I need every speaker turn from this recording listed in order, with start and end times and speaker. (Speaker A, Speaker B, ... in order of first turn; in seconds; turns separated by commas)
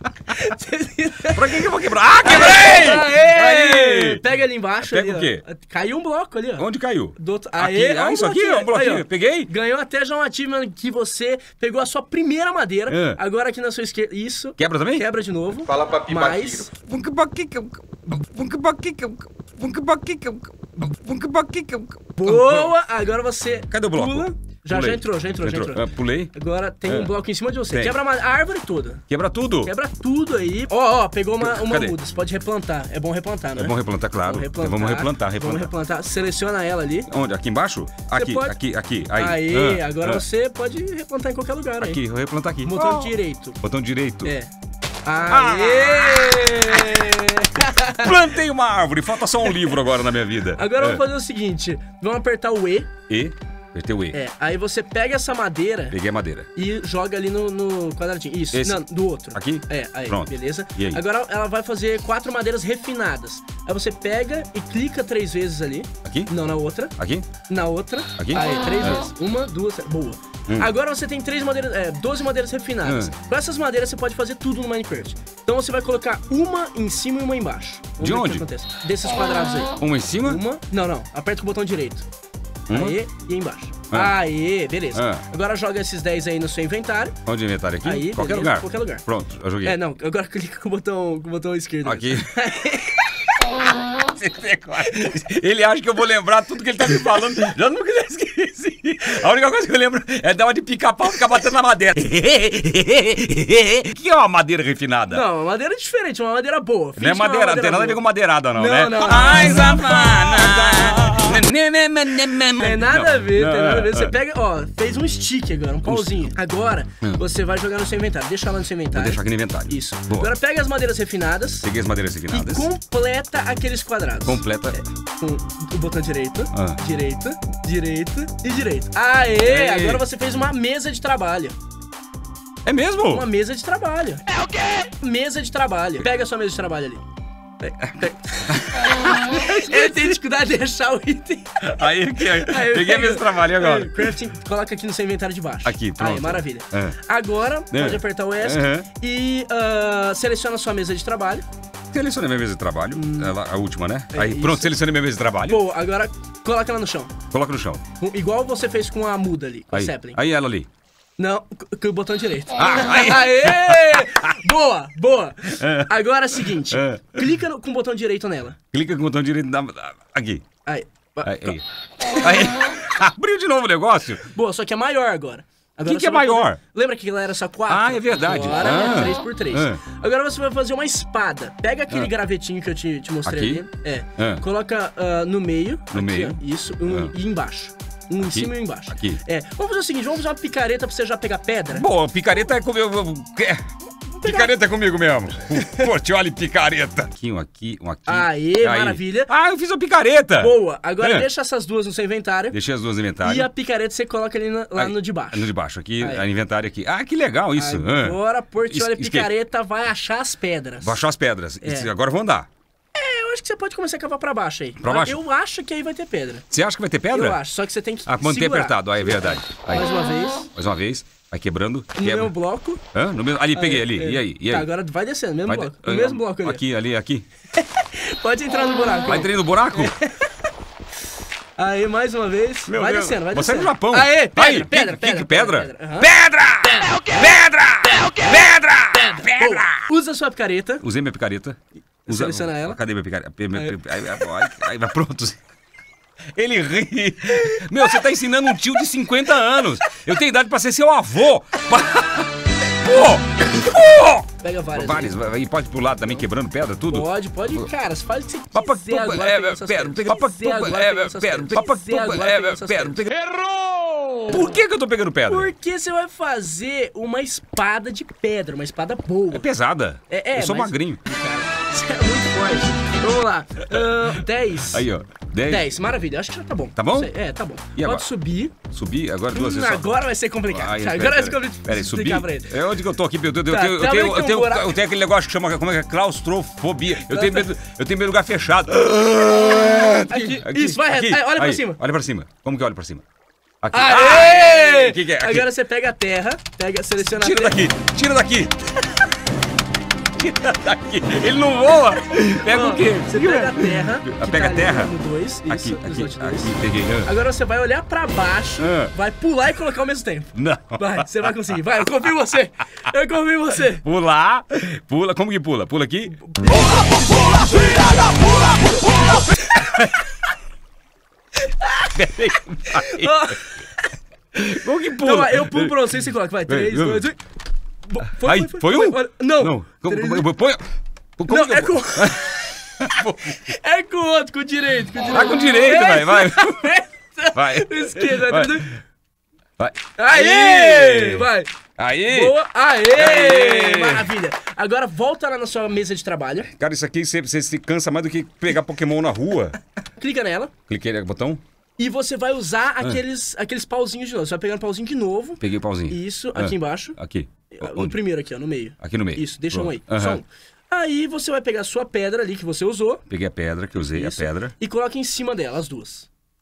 Speaker A: 0.3-1.7, Speaker B: 1.3-4.2, Speaker A: 2.2-16.7, Speaker B: 4.8-5.4, Speaker B: 6.6-9.5, Speaker B: 12.9-13.2, Speaker B: 14.6-15.0, Speaker B: 15.7-22.7, Speaker A: 22.2-29.0, Speaker B: 23.7-26.3, Speaker B: 27.7-28.0, Speaker B: 29.1-29.7, Speaker A: 29.6-37.1, Speaker B: 31.4-31.9, Speaker B: 33.6-35.7, Speaker B: 37.1-40.2, Speaker A: 38.1-38.6, Speaker A: 39.1-42.0, Speaker B: 41.8-44.3, Speaker A: 42.6-43.6, Speaker A: 44.2-44.5, Speaker A: 45.0-48.1, Speaker B: 45.3-47.1, Speaker B: 47.7-51.0, Speaker A: 50.5-52.9, Speaker B: 53.1-54.2, Speaker A: 54.1-56.0, Speaker B: 55.9-56.5, Speaker A: 56.5-66.9, Speaker B: 58.5-61.0, Speaker B: 66.0-66.3, Speaker B: 67.0-67.3, Speaker A: 67.5-82.0, Speaker B: 68.2-69.0, Speaker B: 72.8-73.1, Speaker B: 78.0-78.4, Speaker B: 79.8-80.4, Speaker B: 82.7-83.0, Speaker A: 82.7-87.2, Speaker B: 84.9-85.2, Speaker B: 87.3-89.8, Speaker A: 87.8-89.0, Speaker A: 89.6-93.4, Speaker B: 91.8-92.4, Speaker B: 93.7-105.2, Speaker A: 105.1-108.0, Speaker B: 107.0-114.1, Speaker A: 108.5-111.4, Speaker A: 112.6-121.7, Speaker B: 115.9-116.3, Speaker B: 118.9-120.3, Speaker B: 121.6-122.7, Speaker A: 122.3-124.4, Speaker B: 124.2-124.8, Speaker A: 125.2-131.6, Speaker B: 126.5-126.8, Speaker B: 129.4-130.0, Speaker B: 132.7-133.3, Speaker A: 133.1-134.2, Speaker A: 134.8-137.0, Speaker A: 137.7-151.4, Speaker B: 137.8-139.9, Speaker B: 141.7-144.0, Speaker B: 145.7-147.0, Speaker B: 147.7-148.9, Speaker B: 151.9-155.6, Speaker A: 152.9-153.3, Speaker A: 154.1-154.8, Speaker A: 155.4-157.2, Speaker B: 157.3-157.8, Speaker A: 158.0-160.2, Speaker B: 159.7-160.7, Speaker A: 161.2-168.6, Speaker B: 162.6-164.2, Speaker B: 165.5-165.9, Speaker B: 166.6-167.2, Speaker B: 168.7-170.5, Speaker A: 170.7-171.6, Speaker B: 171.2-174.3, Speaker A: 174.3-191.9, Speaker B: 175.8-176.6, Speaker B: 177.7-179.8, Speaker B: 183.3-183.6, Speaker B: 184.2-184.4, Speaker B: 185.9-187.1, Speaker B: 188.2-189.2, Speaker B: 191.7-193.7, Speaker A: 194.2-194.6, Speaker B: 194.2-201.3, Speaker A: 198.1-199.3, Speaker A: 200.4-202.6, Speaker B: 202.5-203.5, Speaker A: 203.2-206.3, Speaker B: 204.8-208.2, Speaker A: 207.6-211.0, Speaker B: 208.7-209.3, Speaker B: 210.8-212.5, Speaker A: 211.6-211.9, Speaker A: 213.0-216.4, Speaker B: 214.8-215.2, Speaker B: 216.5-217.4, Speaker A: 217.1-220.5, Speaker B: 218.1-219.9, Speaker B: 220.5-222.3, Speaker A: 222.0-222.8, Speaker B: 222.9-224.7, Speaker A: 223.5-226.6, Speaker B: 225.5-227.3, Speaker A: 227.6-230.3, Speaker B: 229.0-230.0, Speaker A: 231.6-236.1, Speaker B: 232.7-239.9, Speaker A: 238.9-240.8, Speaker B: 240.8-245.4, Speaker A: 242.1-242.8, Speaker A: 243.5-243.8, Speaker B: 246.3-257.7, Speaker A: 254.4-255.2, Speaker A: 256.9-263.7, Speaker B: 258.5-263.4, Speaker B: 264.2-265.5, Speaker A: 265.3-269.5, Speaker B: 269.3-271.0, Speaker A: 270.1-274.9, Speaker B: 273.7-274.1, Speaker B: 274.6-275.9, Speaker A: 275.4-278.6, Speaker B: 276.8-277.1, Speaker B: 277.8-278.1, Speaker B: 278.7-293.0, Speaker A: 279.3-282.6, Speaker A: 283.5-284.7, Speaker A: 287.1-287.5, Speaker A: 290.1-291.8, Speaker B: 293.6-295.5, Speaker A: 293.7-297.7, Speaker B: 297.0-298.7, Speaker B: 300.2-304.9, Speaker A: 302.4-313.9, Speaker B: 305.5-307.1, Speaker B: 308.6-308.9, Speaker B: 310.4-311.4, Speaker B: 313.8-318.3, Speaker A: 316.3-319.6, Speaker B: 319.0-319.9, Speaker A: 321.4-322.1, Speaker B: 321.9-323.3, Speaker A: 322.7-323.9, Speaker B: 324.3-325.8, Speaker A: 324.9-327.2, Speaker B: 326.5-327.1, Speaker A: 327.9-330.3, Speaker B: 328.2-330.6, Speaker B: 331.2-333.4, Speaker A: 331.3-338.7, Speaker B: 335.1-336.7, Speaker B: 337.3-338.6, Speaker B: 339.6-342.4, Speaker A: 340.0-341.5, Speaker A: 342.1-346.5, Speaker B: 342.9-344.1, Speaker B: 346.4-349.6, Speaker A: 350.0-350.5, Speaker B: 350.7-351.4, Speaker A: 351.8-357.0, Speaker B: 355.4-358.0, Speaker A: 357.5-363.0, Speaker B: 358.8-360.2, Speaker B: 363.1-364.6, Speaker A: 363.9-366.1